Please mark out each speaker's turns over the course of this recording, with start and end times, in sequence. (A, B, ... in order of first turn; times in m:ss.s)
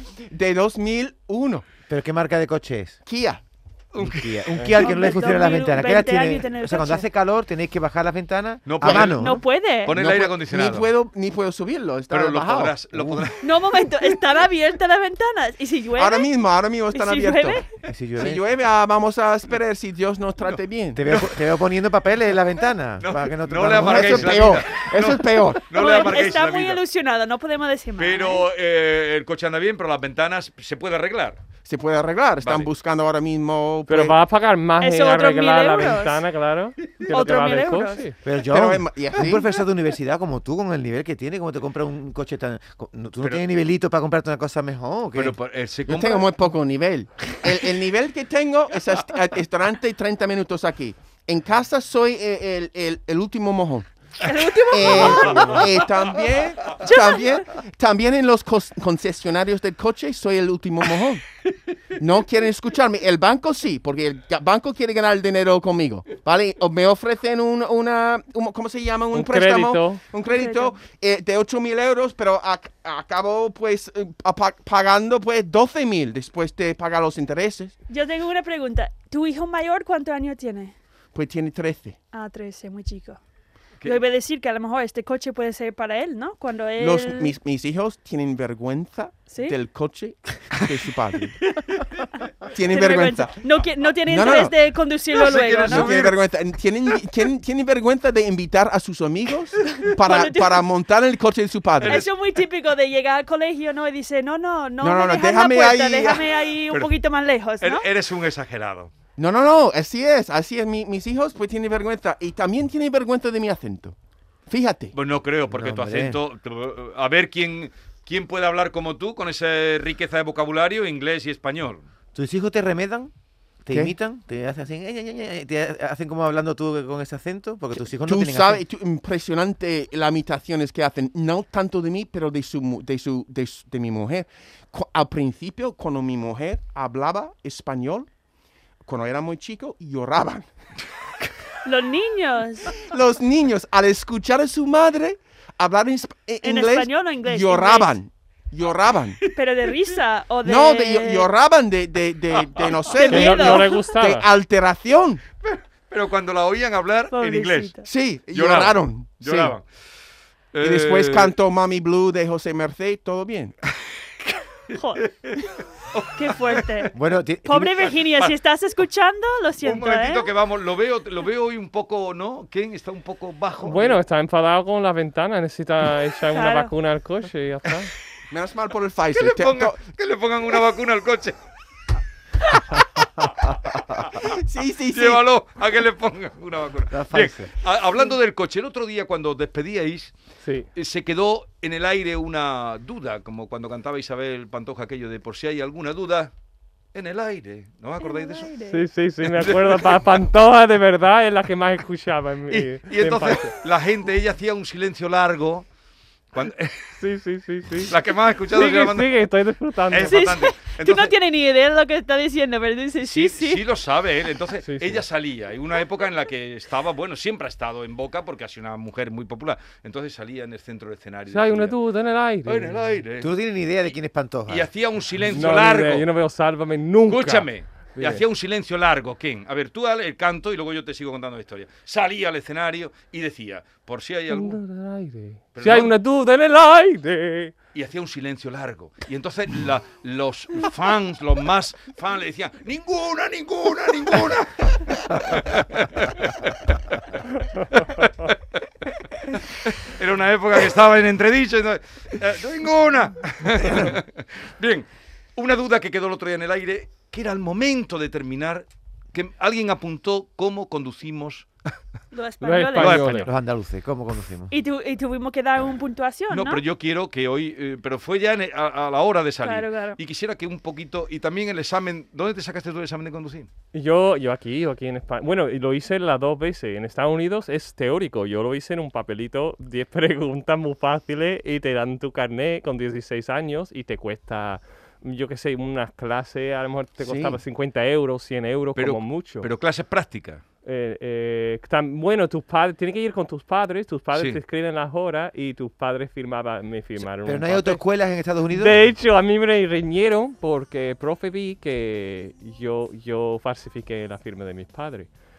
0:00.3-0:01.6 A
0:01.9-0:03.0 B
0:03.0-0:03.4 A
0:03.9-0:04.4 C
0:04.0-0:09.4 B
0:04.8-0:07.0 D
0:08.6-0:10.9 C
0:08.8-0:09.2 A
0:09.0-0:09.9 D
0:09.9-0:12.7 A
0:12.1-0:14.0 C
0:12.9-0:13.3 B
0:13.4-0:16.3 D
0:15.9-0:17.6 A
0:16.9-0:17.7 D
0:17.8-0:18.4 B
0:18.2-0:21.0 A
0:20.9-0:24.6 B
0:23.0-0:26.8 C
0:23.8-0:25.8 A
0:25.7-0:28.4 D
0:28.0-0:31.4 C
0:31.6-0:34.2 A
0:32.4-0:32.7 C
0:33.9-0:38.1 E
0:34.8-0:36.2 D
0:37.0-0:38.1 D
0:38.2-0:45.4 B
0:38.4-0:39.4 A
0:45.1-0:46.3 C
0:45.9-0:53.9 A
0:54.2-0:55.7 D
0:54.7-1:01.2 A
0:56.8-0:57.4 D
1:02.0-1:17.7 A
1:09.1-1:10.0 E
1:10.2-1:10.7 D
1:17.9-1:20.7 D
1:21.1-1:22.0 A
1:22.1-1:23.2 D
1:23.8-1:27.3 D
1:26.8-1:31.4 A
1:29.3-1:29.6 D
1:32.5-1:33.4 A
1:32.7-1:36.0 D
1:34.0-1:34.5 A
1:35.1-1:36.2 C
1:35.6-1:42.1 A
1:39.8-1:40.6 D
1:41.8-1:42.1 C
1:41.8-1:47.8 D
1:44.8-1:46.3 A
1:47.6-1:48.9 C
1:49.2-1:54.0 A
1:54.5-1:54.9 A
1:54.9-2:01.8 C
1:55.5-1:56.2 B
2:02.1-2:03.1 B
2:03.6-2:08.6 B
2:08.0-2:18.1 A
2:18.8-2:20.5 A
2:21.6-2:22.7 D
2:22.8-2:29.2 A
2:26.4-2:28.0 D
2:29.3-2:31.3 D
2:30.4-2:35.2 A
2:32.9-2:33.8 D
2:33.0-2:34.3 E
2:35.4-2:37.7 C
2:37.1-2:37.9 D
2:37.9-2:39.5 A
2:38.3-2:39.6 C
2:40.5-2:41.3 C
2:40.6-2:43.6 A
2:44.7-2:46.9 C
2:44.7-2:45.1 D
2:46.2-2:46.9 D
2:46.9-2:47.9 B
2:47.4-2:50.3 D
2:49.6-2:54.0 C
2:53.6-2:57.9 E
2:56.3-2:56.7 D
2:58.3-2:59.8 A
2:59.1-3:01.4 C
3:03.2-3:05.2 A
3:04.9-3:10.1 C
3:06.9-3:07.5 B
3:10.7-3:16.3 C
3:16.9-3:18.5 C
3:18.0-3:18.8 D
3:18.7-3:23.5 E
3:19.2-3:20.0 C
3:22.5-3:25.7 C
3:26.3-3:27.0 C
3:27.0-3:27.9 E
3:27.9-3:29.2 C
3:28.5-3:30.2 E
3:29.9-3:31.1 C
3:30.0-3:33.6 D
3:33.0-3:41.8 C
3:34.6-3:35.0 E
3:41.3-3:42.8 E
3:42.4-3:43.3 C
3:43.2-3:44.7 B
3:44.5-3:46.1 C
3:45.3-3:48.2 E
3:47.1-3:54.6 C
3:54.3-3:57.5 E
3:55.6-3:55.9 C
3:57.7-4:07.0 C
4:07.7-4:08.4 C
4:09.3-4:21.5 C
4:22.1-4:23.0 D
4:22.4-4:23.3 E
4:22.8-4:23.3 C
4:23.0-4:24.5 B
4:24.5-4:26.6 D
4:26.3-4:33.5 C
4:29.4-4:30.0 D
4:33.7-4:49.5 E
4:47.0-4:47.4 A
4:48.8-4:50.4 C
4:50.6-4:57.8 E
4:54.1-4:54.4 C
4:57.0-4:58.8 B
4:58.5-5:05.1 E